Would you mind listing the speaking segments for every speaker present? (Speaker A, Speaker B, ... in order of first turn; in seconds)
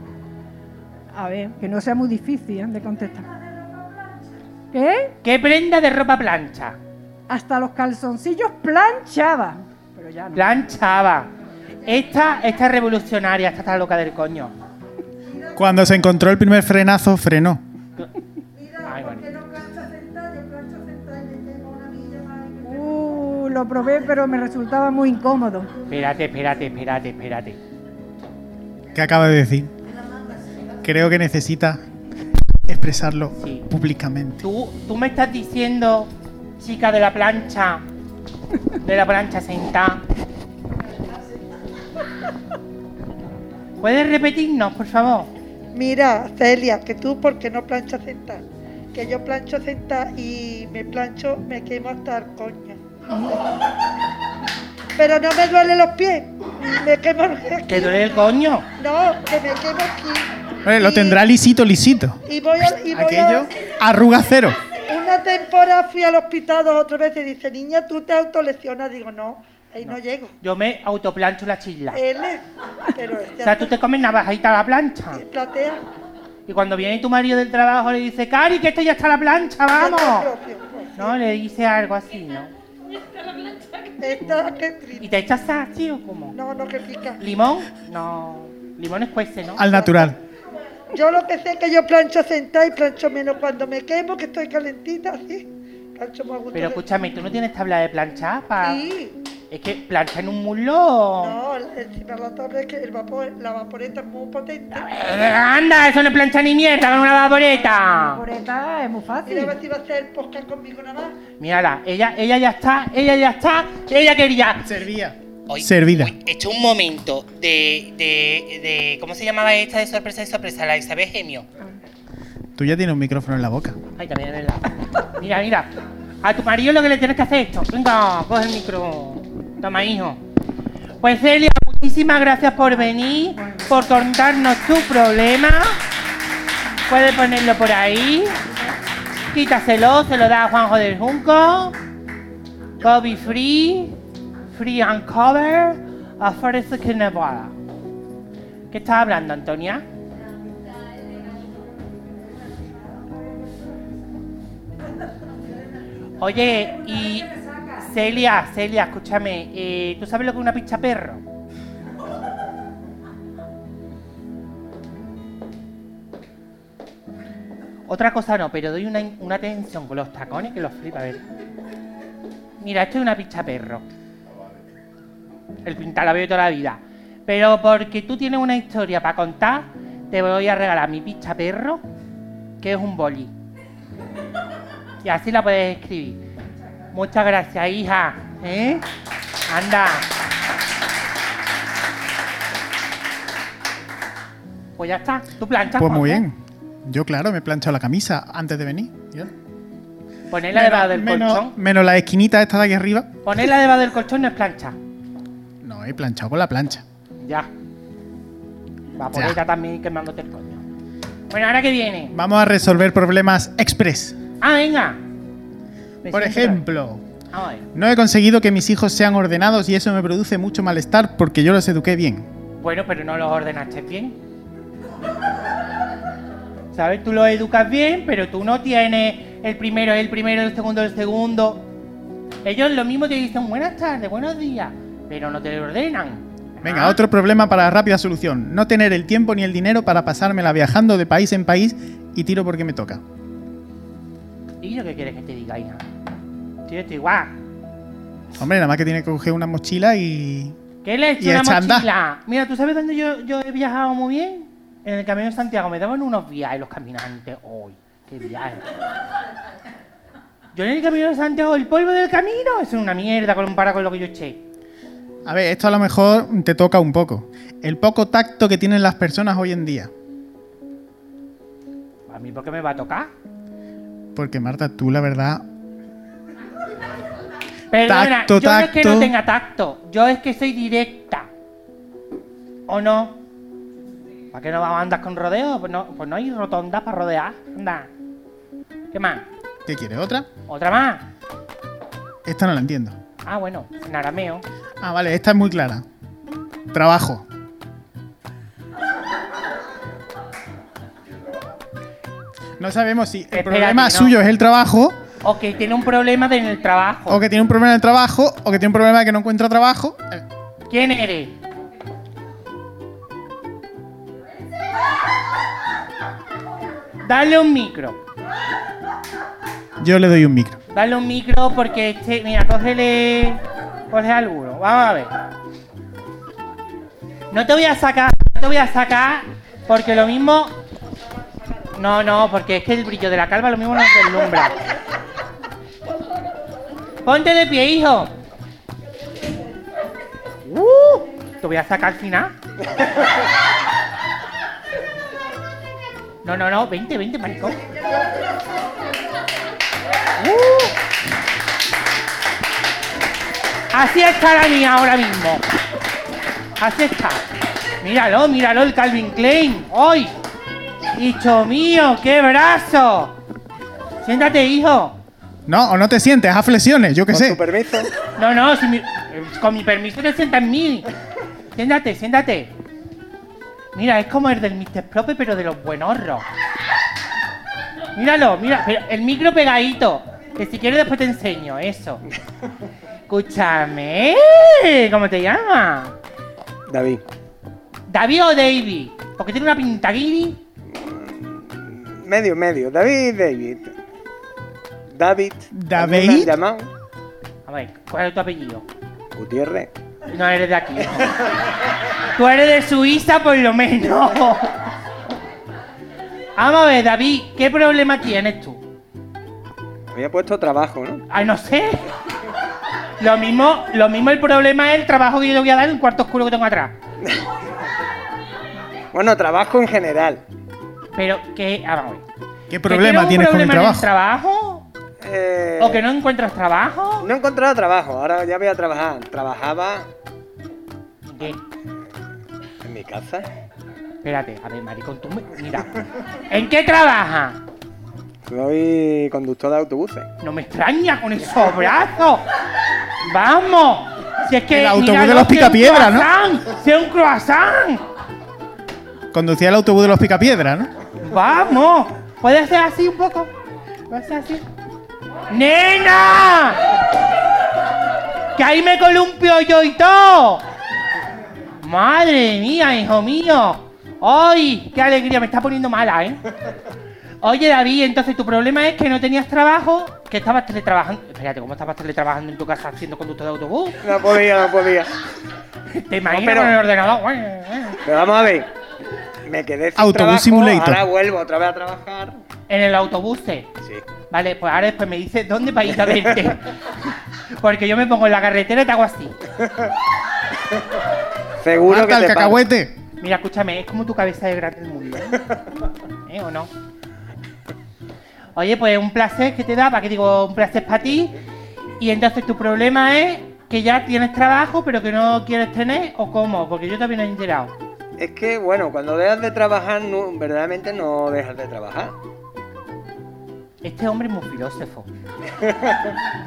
Speaker A: 1.1-3.3, 4.7-5.1, 7.3-10.6, 22.6-25.7, 108.1-109.6, 133.4-133.7
Speaker B: 5.2-6.8, 10.3-11.3, 11.8-14.5, 18.8-19.3, 25.9-27.6, 33.4-33.7, 34.4-37.8, 38.8-40.0, 43.8-45.3, 57.7-58.6, 69.8-72.0, 73.4-75.2, 76.5-80.3, 81.0-82.5, 85.0-86.3, 87.2-89.7, 96.5-98.8, 99.5-101.3, 104.7-108.2, 111.4-114.7, 115.5-121.5, 124.0-125.7, 126.2-130.2, 131.0-135.8, 136.9-138.4, 139.3-141.8, 142.8-144.0, 144.5-147.5, 148.7-149.8, 156.2-161.2, 167.9-171.2, 172.6-173.8, 175.6-181.8, 182.6-183.3, 185.0-186.2, 186.9-188.8, 189.5-190.1, 194.8-196.2, 200.3-201.5, 203.2-204.8, 207.2-207.5, 209.0-210.6, 211.3-212.1, 214.4-215.0, 216.0-216.6, 217.3-217.7, 222.6-224.2, 226.7-231.6, 232.4-237.0, 244.6-245.8, 246.7-247.3, 250.8-258.7, 260.5-264.4, 272.1-273.1, 277.7-281.3, 282.7-283.2, 284.3-287.9, 288.9-289.2, 290.5-291.0, 293.2-294.4, 303.3-304.1, 305.2-307.2, 310.7-311.3, 317.0-318.0, 320.7-325.1, 327.3-330.6, 331.7-334.6, 337.0-338.1, 340.4-342.3, 346.2-347.6, 350.2-350.7, 353.7-355.4, 356.6-357.2, 357.8-360.1, 360.9-363.1, 364.0-365.0, 368.2-370.9, 371.5-372.5, 373.7-376.2, 377.9-382.0, 383.1-385.9, 387.9-390.4, 397.5-398.6, 400.1-401.3, 402.1-404.6, 406.4-408.6, 411.1-411.9, 413.0-416.7, 420.9-422.0, 422.7-424.6, 425.6-427.1, 431.1-431.4, 434.0-437.4, 440.2-442.2, 443.0-447.8, 451.0-453.3, 453.9-454.4, 455.3-456.7, 458.4-460.4, 461.6-466.2, 467.2-473.8, 475.7-477.8, 482.5-483.5, 484.1-486.5, 487.4-489.1, 493.0-495.2, 496.1-496.5, 498.3-501.1, 501.8-507.5, 513.6-514.9
Speaker C: 15.3-15.6, 18.5-22.7, 30.1-30.4, 45.7-48.4, 48.9-52.8, 55.0-58.2, 58.8-61.2, 62.2-63.5, 64.8-70.3, 71.9-73.7, 75.1-75.8, 79.7-81.2, 84.0-85.1, 86.3-87.2, 89.7-90.1, 90.9-96.8, 98.6-99.2, 101.2-104.9, 109.2-111.1
Speaker D: 15.6-17.6, 28.9-29.7, 30.8-31.8, 32.7-34.4, 60.6-62.2, 62.9-64.6, 89.6-90.2, 114.6-116.1, 122.6-123.8, 195.8-199.3, 200.5-203.1, 205.6-206.8, 212.1-214.2, 216.1-217.0, 217.7-222.3, 236.6-243.0, 248.3-250.6, 251.2-251.9, 265.2-269.9, 274.1-275.4, 277.9-279.1, 289.6-290.3, 292.2-293.0, 294.8-295.8, 296.7-297.2, 302.6-305.0, 307.1-310.2, 319.8-320.6, 365.5-367.4, 395.5-396.3, 422.5-423.9, 444.5-446.1, 449.1-450.7, 479.8-480.8, 491.7-492.7
Speaker E: 367.1-367.9, 386.7-387.0, 390.6-393.7, 394.9-396.7, 399.1-399.7, 409.9-411.0, 418.9-420.2, 425.0-425.8, 427.0-429.9, 432.6-433.3, 438.3-440.1, 473.8-474.9, 476.1-476.6, 477.8-478.5, 479.2-482.2, 483.6-483.9, 485.9-486.1, 489.4-489.7, 491.4-492.4, 508.0-511.9, 515.4-515.9